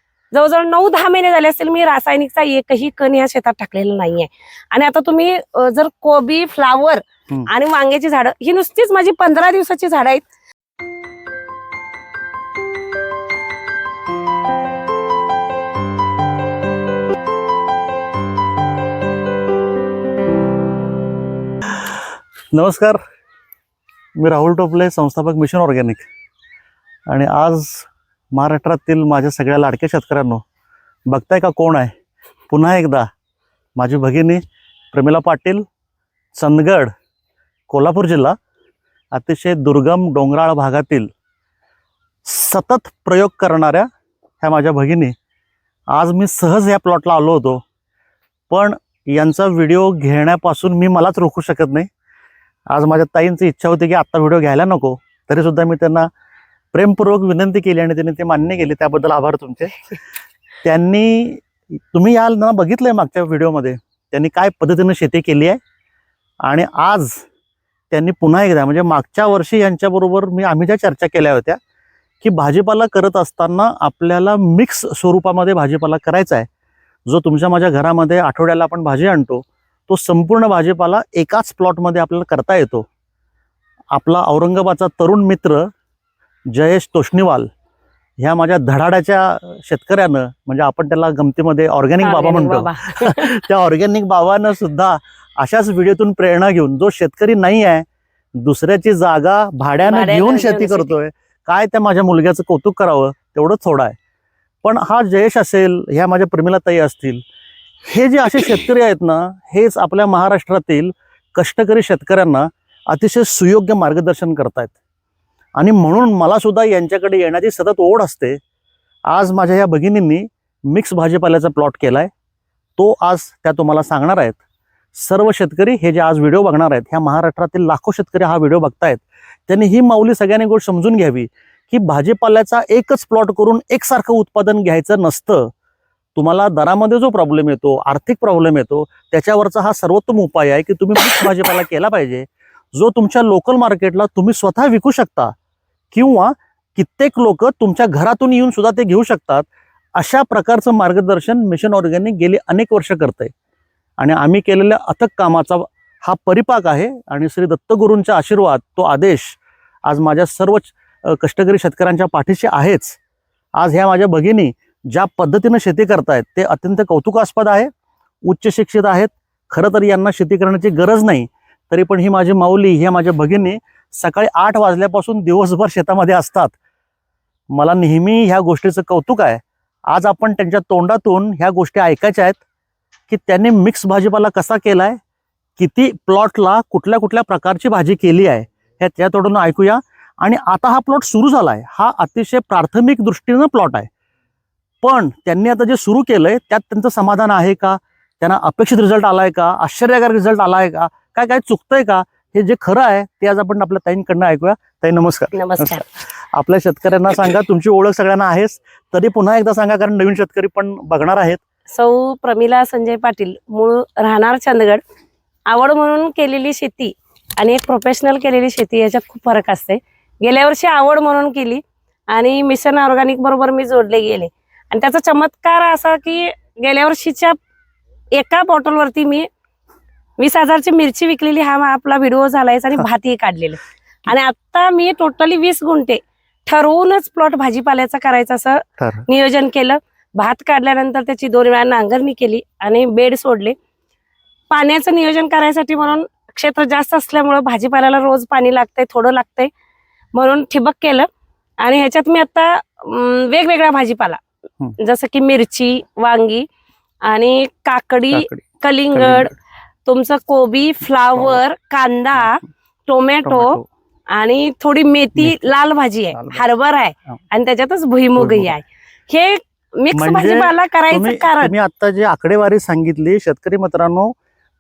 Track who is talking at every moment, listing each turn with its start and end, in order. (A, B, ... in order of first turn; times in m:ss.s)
0:00.3-0:10.2 A
0:22.5-0:23.0 B
0:24.2-0:26.1 B
0:27.1-0:30.4 B
0:31.1-0:31.9 B
0:32.5-0:33.1 B
0:33.8-0:34.4 B
0:34.9-0:35.6 B
0:36.3-0:36.9 B
0:37.7-0:38.4 B
0:39.1-0:41.1 B
0:42.2-0:43.9 B
0:44.4-0:45.2 B
0:45.9-0:47.6 B
0:48.5-0:51.9 B
0:52.7-0:56.1 B
0:56.7-0:59.8 B
1:00.6-1:05.6 B
1:06.5-1:07.2 B
1:07.9-1:11.6 B
1:12.2-1:16.5 B
1:17.1-1:22.9 B
1:23.9-1:25.7 B
1:26.5-1:27.5 B
1:28.2-1:37.9 B
1:32.0-1:33.4 A
1:38.4-1:44.0 B
1:39.8-1:40.9 A
1:44.6-1:47.2 B
1:47.9-1:54.8 B
1:55.6-1:58.4 B
1:59.1-2:02.1 B
2:02.8-2:04.4 B
2:05.0-2:15.5 B
2:16.2-2:25.3 B
2:25.9-2:33.3 B
2:34.0-2:43.0 B
2:43.6-2:47.7 B
2:48.2-2:56.6 B
2:57.5-3:02.4 B
3:03.1-3:05.0 B
3:05.6-3:13.9 B
3:14.8-3:31.4 B
3:25.3-3:25.8 A
3:31.7-3:34.8 A
3:35.5-3:47.4 A
3:48.1-3:49.3 A
3:50.2-4:03.6 A
3:58.8-3:59.1 B
4:04.5-4:09.5 A
4:10.1-4:11.1 A
4:11.6-4:14.2 A
4:14.8-4:16.5 A
4:17.0-4:19.3 A
4:18.1-4:19.3 B
4:19.8-4:23.6 A
4:23.2-4:23.7 B
4:24.1-4:31.5 A
4:25.2-4:25.4 B
4:26.1-4:26.4 B
4:28.2-4:28.6 B
4:29.9-4:34.2 B